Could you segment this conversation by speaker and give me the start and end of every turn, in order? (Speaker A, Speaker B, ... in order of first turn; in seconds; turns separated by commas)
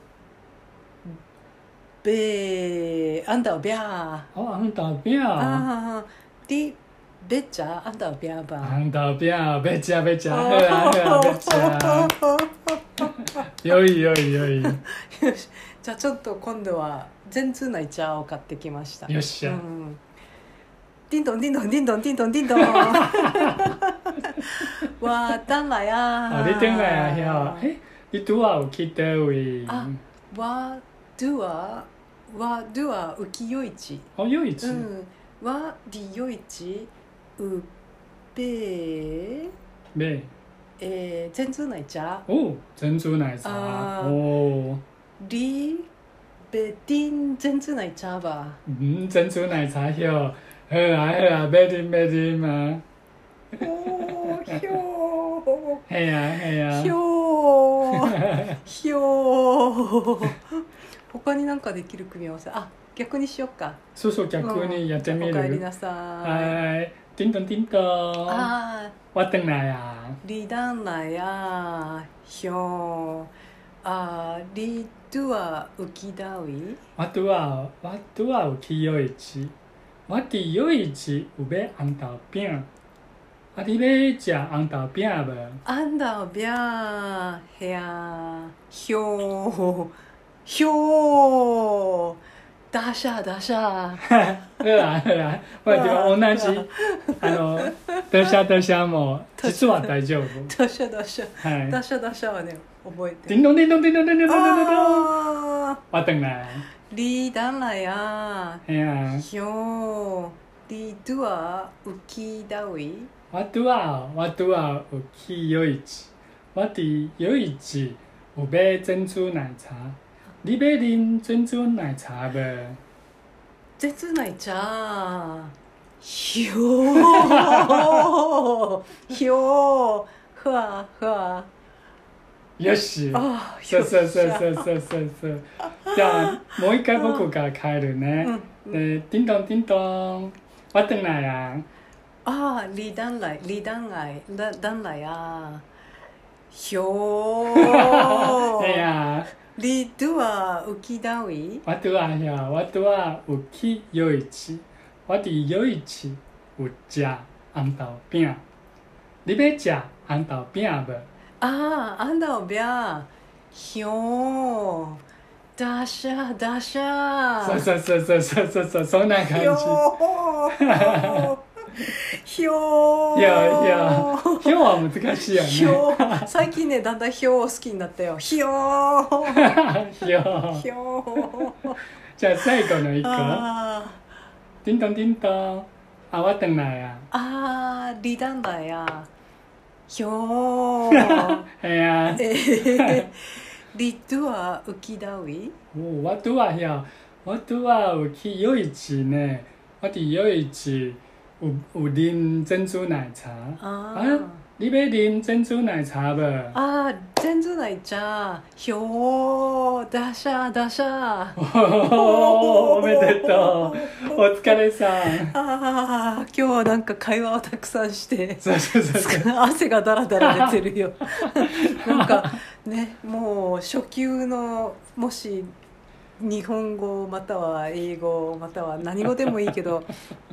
Speaker A: 2.0-4.3, Speaker B: 4.3-5.7, Speaker A: 5.3-8.8, Speaker B: 8.6-12.1, Speaker A: 10.3-13.1, Speaker B: 13.4-14.8, Speaker A: 14.6-20.0, Speaker B: 19.1-19.6, Speaker A: 21.1-27.7, Speaker B: 22.6-23.6, Speaker B: 26.3-30.0, Speaker A: 29.6-37.7, Speaker B: 34.2-34.9, Speaker A: 38.3-39.5, Speaker B: 39.9-40.3, Speaker A: 40.8-42.3, Speaker B: 42.3-44.8, Speaker A: 43.4-44.2, Speaker A: 45.2-45.9, Speaker A: 46.5-48.6, Speaker B: 48.6-52.8, Speaker A: 53.6-55.8, Speaker B: 54.1-54.6, Speaker B: 55.9-57.0, Speaker A: 56.7-63.8, Speaker B: 57.9-58.6, Speaker B: 64.0-65.7, Speaker A: 64.4-66.6, Speaker B: 66.2-68.5, Speaker A: 68.3-69.0, Speaker B: 69.1-70.2, Speaker A: 70.2-73.3, Speaker A: 73.8-76.8, Speaker B: 77.0-79.5, Speaker B: 80.1-82.7, Speaker B: 83.5-85.6, Speaker A: 85.6-89.9, Speaker A: 90.4-92.2, Speaker A: 92.7-94.1, Speaker B: 94.0-96.7, Speaker A: 95.7-98.3, Speaker B: 97.2-100.5, Speaker A: 99.4-103.4, Speaker B: 101.4-101.8, Speaker B: 103.3-105.1, Speaker A: 104.3-105.8, Speaker B: 105.9-106.7, Speaker A: 106.9-113.1, Speaker B: 108.7-109.2, Speaker B: 113.3-122.8, Speaker A: 123.8-131.5, Speaker B: 126.9-128.1, Speaker B: 132.6-141.7, Speaker A: 133.1-134.7, Speaker A: 135.8-137.2, Speaker A: 138.2-138.8, Speaker A: 142.2-145.6, Speaker A: 146.5-148.8, Speaker B: 147.5-149.3, Speaker A: 149.5-151.6, Speaker B: 151.6-158.4, Speaker B: 159.2-161.1, Speaker A: 161.4-165.0, Speaker A: 165.6-167.7, Speaker B: 167.4-169.8, Speaker A: 169.2-174.7, Speaker B: 170.5-171.3, Speaker B: 173.1-176.3, Speaker A: 175.2-179.6, Speaker B: 179.3-180.7, Speaker A: 180.5-181.8, Speaker B: 181.2-181.5, Speaker B: 182.2-183.5, Speaker A: 182.8-184.0, Speaker B: 184.6-187.1, Speaker A: 187.1-189.1, Speaker A: 189.9-191.5, Speaker B: 190.9-193.1, Speaker A: 192.2-195.6, Speaker B: 195.7-206.6, Speaker A: 203.6-204.4, Speaker A: 206.5-225.5, Speaker B: 211.4-215.3, Speaker B: 218.4-219.3, Speaker B: 220.2-220.5, Speaker B: 221.4-222.3, Speaker A: 226.2-229.9